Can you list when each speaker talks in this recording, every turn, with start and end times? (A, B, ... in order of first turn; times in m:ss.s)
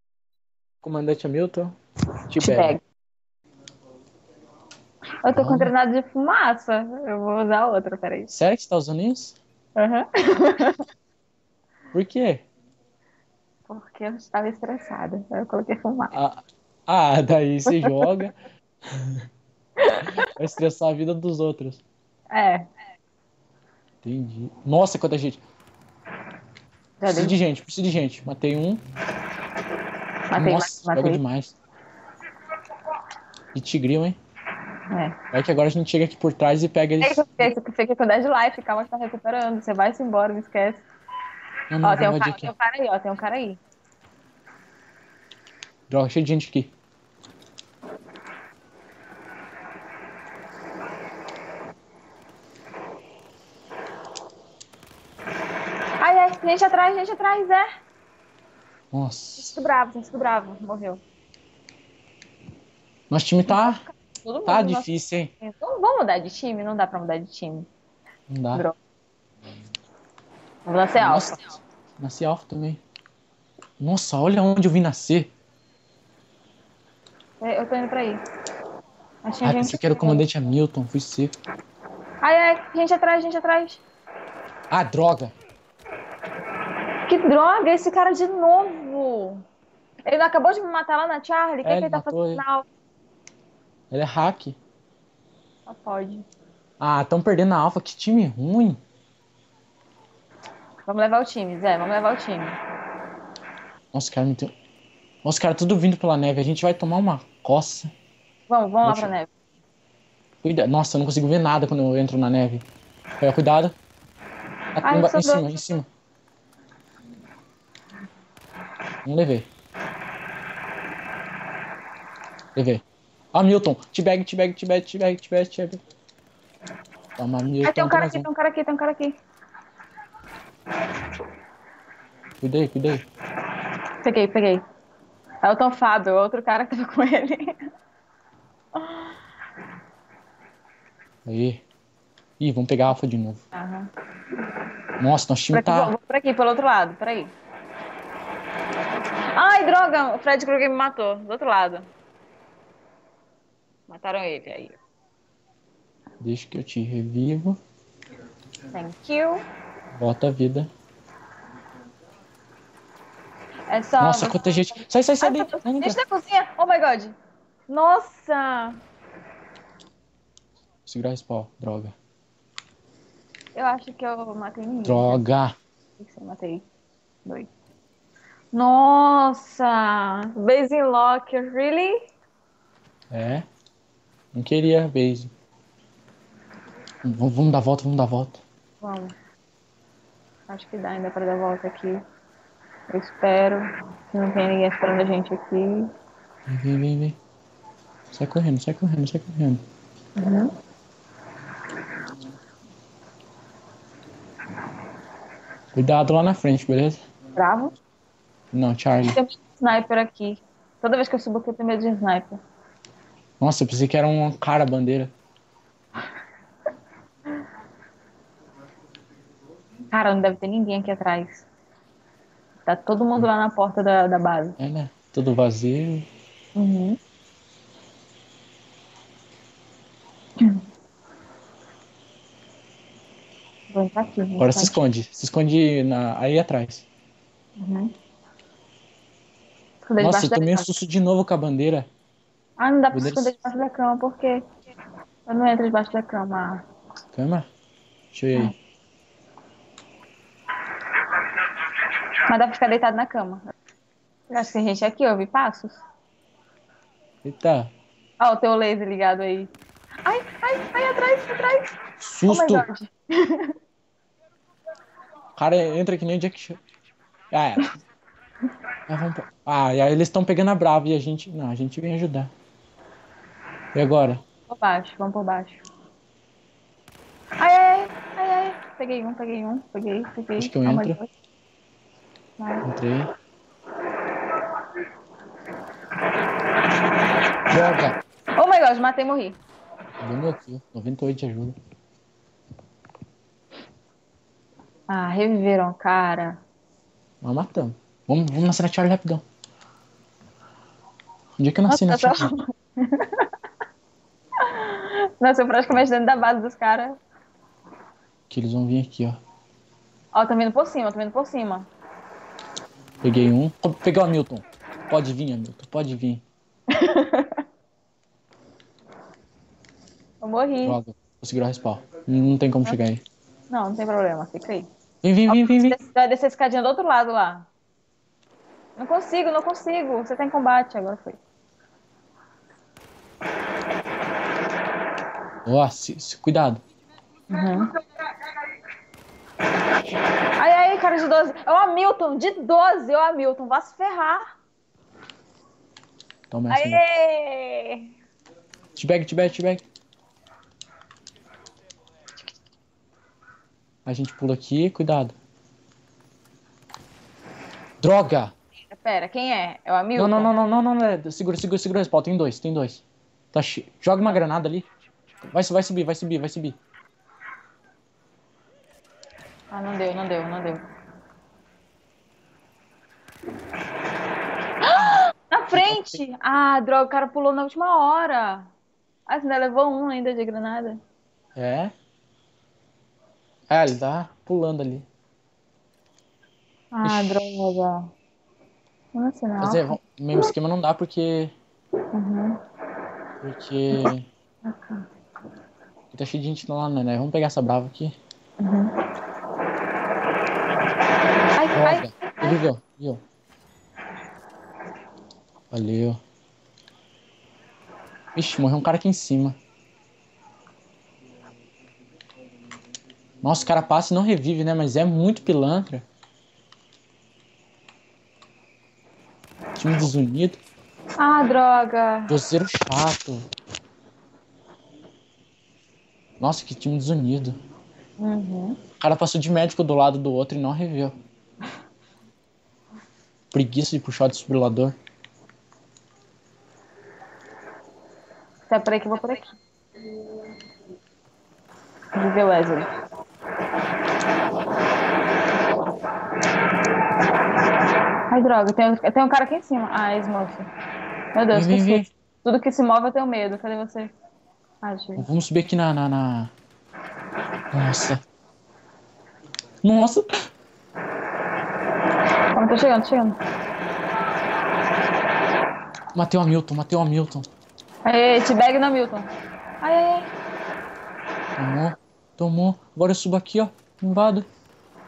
0:00.8-0:01.8 A
0:02.3-0:02.8 A
0:02.4-0:02.8 B
0:05.2-0:08.3 B
0:05.3-0:05.7 A
0:08.3-0:09.4 A
0:09.8-0:10.8 B
0:11.9-0:12.4 A
0:13.7-0:16.1 B
0:16.1-0:18.4 A
0:17.7-0:18.0 B
0:19.0-0:19.2 A
0:19.8-0:20.3 B
0:20.2-0:21.8 A
0:22.3-0:22.6 B
0:24.0-0:25.4 A
0:27.0-0:27.3 B
0:27.1-0:28.8 A
0:30.3-0:31.2 B
0:30.4-0:31.6 A
0:33.5-0:34.2 A
0:34.9-0:35.2 B
0:35.3-0:37.5 A
0:37.0-0:40.8 B
0:41.7-0:42.5 A
0:41.8-0:43.6 B
0:45.9-0:46.7 A
0:56.0-0:57.6 B
0:58.9-0:59.5 A
0:59.4-1:01.0 B
1:03.1-1:03.8 A
1:03.5-1:04.9 B
1:04.5-1:05.3 A
1:05.4-1:07.7 B
1:08.3-1:08.6 A
1:10.6-1:11.5 B
1:11.0-1:11.4 A
1:12.0-1:12.8 A
1:13.8-1:15.3 A
1:17.4-1:18.2 B
1:19.2-1:20.2 B
1:19.4-1:21.3 A
1:22.2-1:23.8 B
1:24.7-1:25.3 A
1:27.1-1:29.4 B
1:30.0-1:32.6 B
1:31.6-1:32.4 A
1:33.9-1:34.6 A
1:35.7-1:36.2 B
1:36.8-1:38.8 A
1:40.8-1:42.6 B
1:43.9-1:44.5 A
1:45.2-1:47.9 A
1:48.5-1:49.3 B
1:48.8-1:49.1 A
1:50.4-1:52.6 A
1:53.2-1:53.8 A
1:54.8-1:55.8 A
1:54.8-1:55.5 B
1:59.0-1:59.5 A
2:02.6-2:05.8 A
2:07.2-2:08.3 A
2:07.6-2:09.2 B
2:12.4-2:13.0 A
2:14.0-2:14.6 B
2:15.4-2:17.6 B
2:18.8-2:19.1 B
2:21.2-2:21.6 A
2:22.4-2:23.4 A
2:23.5-2:23.9 B
2:25.0-2:25.9 A
2:25.5-2:27.3 B
2:29.3-2:31.9 B
2:33.9-2:34.8 B
2:36.2-2:37.6 A
2:38.7-2:39.4 B
2:40.0-2:40.7 A
2:43.7-2:44.4 B
2:44.0-2:46.0 A
2:45.2-2:47.2 B
2:47.7-2:48.8 B
2:50.8-2:51.9 A
2:53.5-2:55.2 B
2:54.8-2:55.5 A
2:56.0-2:56.6 B
2:57.2-2:57.5 B
2:58.5-3:01.9 B
3:03.1-3:03.4 A
3:04.3-3:05.3 A
3:07.0-3:08.4 A
3:08.8-3:09.1 B
3:10.5-3:12.0 B
3:12.9-3:15.9 B
3:16.5-3:17.2 A
3:18.1-3:19.6 A
3:20.2-3:20.5 B
3:25.7-3:27.0 A
3:27.4-3:27.7 B
3:28.5-3:29.2 A
3:29.1-3:32.4 B
3:33.4-3:35.1 A
3:39.9-3:41.5 B
3:42.6-3:44.6 B
3:44.6-3:46.1 A
3:46.5-3:47.0 B
3:53.7-3:54.7 B
3:54.4-3:56.9 A
3:57.6-3:57.9 B
3:59.8-4:00.7 B
4:00.0-4:01.9 A
4:02.6-4:04.4 B
4:02.9-4:03.3 A
4:05.3-4:06.6 B
4:07.1-4:07.5 A
4:08.1-4:08.5 A
4:12.3-4:13.4 B
4:14.3-4:15.8 B
4:17.2-4:17.7 A
4:18.2-4:19.5 B
4:20.0-4:21.7 B
4:22.0-4:22.7 A
4:22.2-4:23.5 B
4:25.4-4:26.6 A
4:27.3-4:27.7 A
4:28.9-4:32.3 A
4:33.7-4:34.2 A
4:34.5-4:35.6 B
4:37.4-4:41.1 B
4:40.4-4:41.0 A
4:42.4-4:42.7 B
4:42.6-4:43.1 A
4:47.5-4:48.0 A
4:48.4-4:49.4 B
4:50.0-4:51.6 A
4:54.9-4:56.4 B
4:57.2-4:59.2 A
5:01.4-5:02.3 A
5:01.7-5:03.3 B
5:04.4-5:07.0 B
5:08.3-5:09.2 A
5:10.1-5:11.7 B
5:13.0-5:16.2 A
5:16.7-5:17.4 B
5:20.2-5:20.8 B
5:20.6-5:23.0 A
5:23.5-5:24.7 B
5:25.0-5:25.8 A
5:25.3-5:27.5 B
5:28.8-5:31.2 B
5:35.4-5:36.6 A
5:37.3-5:37.7 B
5:40.4-5:44.2 B
5:46.3-5:46.8 A
5:46.5-5:47.9 B
5:48.8-5:49.6 A
5:53.8-5:55.1 A
5:57.8-5:58.3 A
5:58.7-6:00.3 B
5:59.9-6:04.7 A
6:05.2-6:06.6 A
6:09.5-6:10.6 B
6:14.6-6:18.5 B
6:15.5-6:16.0 A
6:19.1-6:20.8 B
6:21.3-6:21.7 A
6:23.5-6:24.9 A
6:26.7-6:27.9 B
6:26.8-6:27.2 A
6:28.9-6:29.8 B
6:29.4-6:31.3 A
6:31.9-6:32.4 B
6:33.2-6:34.1 A
6:34.4-6:34.8 B
6:35.9-6:38.0 A
6:38.4-6:38.7 B
6:41.4-6:42.4 B
6:41.5-6:43.0 A
6:45.5-6:46.0 A
6:48.1-6:49.4 A
6:53.2-6:55.8 A
6:59.6-7:00.4 A
7:01.0-7:02.1 B
7:02.1-7:03.2 A
7:06.2-7:07.4 A
7:08.0-7:08.6 B
7:08.8-7:10.9 A
7:13.3-7:14.8 A
7:18.5-7:19.3 B
7:21.9-7:22.7 B
7:28.1-7:30.5 B
7:31.1-7:33.9 B
7:31.3-7:31.9 A
7:34.6-7:35.1 B
7:35.0-7:36.3 A
7:37.5-7:38.0 A
7:39.6-7:40.0 A
7:42.3-7:43.2 B
7:45.9-7:47.2 A
7:47.8-7:49.1 B
7:49.6-7:50.1 B
7:51.4-7:54.3 A